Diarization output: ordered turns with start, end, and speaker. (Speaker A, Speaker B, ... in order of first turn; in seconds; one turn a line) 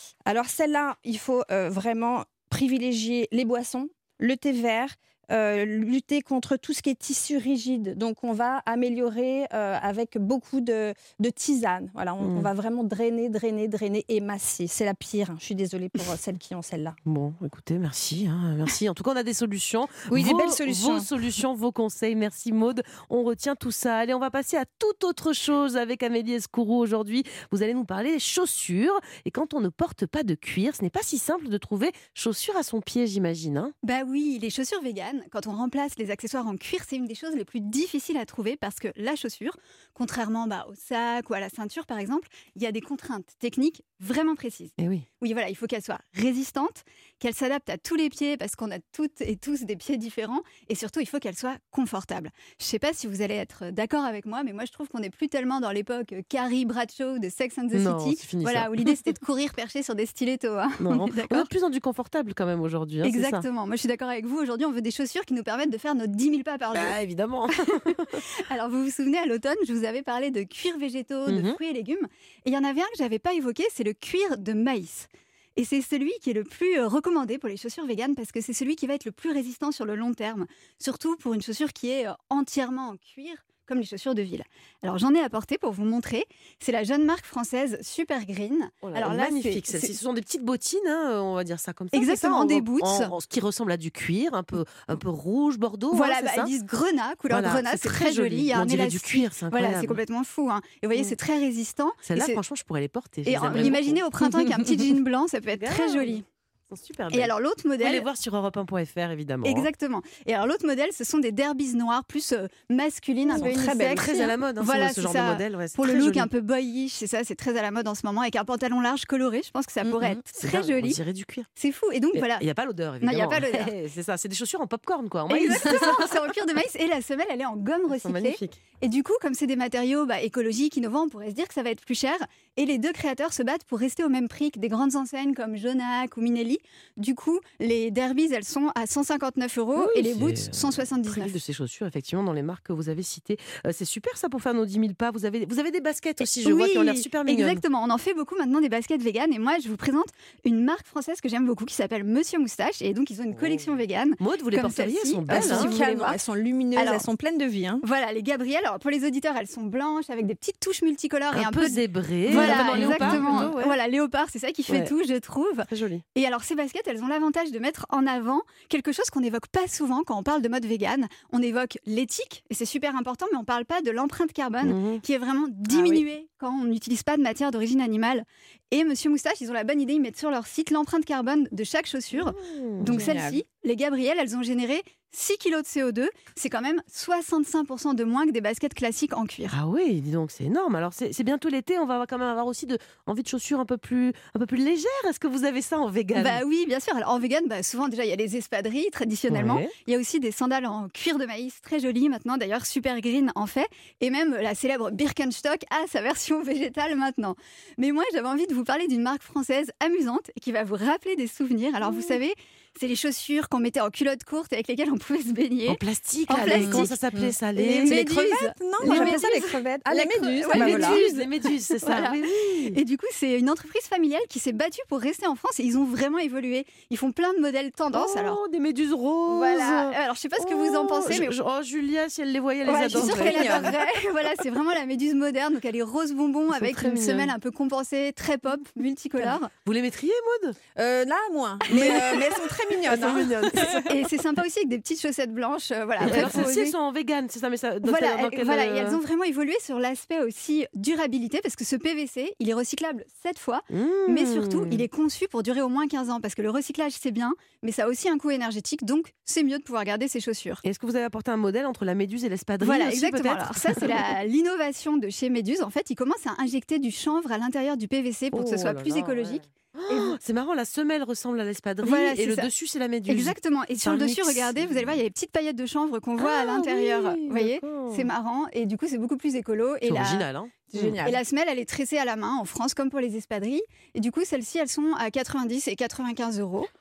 Speaker A: 0.3-16.9
Speaker B: 12.2-12.5
Speaker B: 17.0-33.7
Speaker A: 20.1-21.1
Speaker C: 33.8-61.5
Speaker B: 44.8-45.0
Speaker B: 57.7-59.0
Speaker B: 60.8-63.5
Speaker C: 63.0-67.0
Speaker B: 66.7-68.2
Speaker C: 67.5-89.9
Speaker B: 71.2-71.6
Speaker B: 88.8-96.5
Speaker C: 91.9-93.1
Speaker C: 95.9-102.4
Speaker B: 97.3-100.0
Speaker B: 102.0-104.1
Speaker C: 103.2-106.2
Speaker A: 103.4-103.8
Speaker B: 105.5-109.7
Speaker C: 107.1-108.1
Speaker C: 109.4-121.0
Speaker A: 113.2-114.1
Speaker B: 113.3-116.3
Speaker A: 119.8-120.2
Speaker B: 120.3-121.5
Speaker C: 121.6-122.5
Speaker B: 122.1-126.2
Speaker C: 123.0-123.7
Speaker C: 125.3-141.4
Speaker B: 128.0-128.6
Speaker B: 139.7-147.6
Speaker C: 146.3-156.2
Speaker B: 153.3-155.8
Speaker A: 155.3-157.8
Speaker C: 156.8-157.1
Speaker C: 157.8-189.5
Speaker B: 161.3-163.8
Speaker A: 162.3-163.5
Speaker B: 164.7-164.9
Speaker B: 165.7-166.0
Speaker B: 174.6-175.0
Speaker A: 175.7-176.0
Speaker B: 182.2-183.1
Speaker A: 182.9-183.4
Speaker B: 189.5-196.4
Speaker C: 196.1-216.9
Speaker B: 199.3-199.7
Speaker B: 215.7-218.0
Speaker A: 216.4-221.2
Speaker C: 217.8-221.2
Speaker B: 218.8-219.2
Speaker B: 220.5-222.8
Speaker C: 221.8-228.4
Speaker B: 227.9-233.8
Speaker C: 229.3-231.3
Speaker C: 232.7-239.5
Speaker A: 232.7-233.8
Speaker B: 236.5-237.3
Speaker B: 239.3-240.6
Speaker A: 240.8-243.9
Speaker B: 241.7-242.1
Speaker C: 241.7-242.3
Speaker B: 242.8-243.9
Speaker C: 243.9-246.7
Speaker B: 246.0-249.0
Speaker A: 246.0-246.7
Speaker C: 247.8-260.6
Speaker B: 253.7-254.8
Speaker B: 260.6-264.1
Speaker C: 262.6-270.2
Speaker B: 268.3-275.0
Speaker C: 271.8-272.5
Speaker C: 273.1-280.3
Speaker B: 276.2-278.1
Speaker B: 279.8-281.0
Speaker A: 280.7-281.2
Speaker C: 281.0-286.7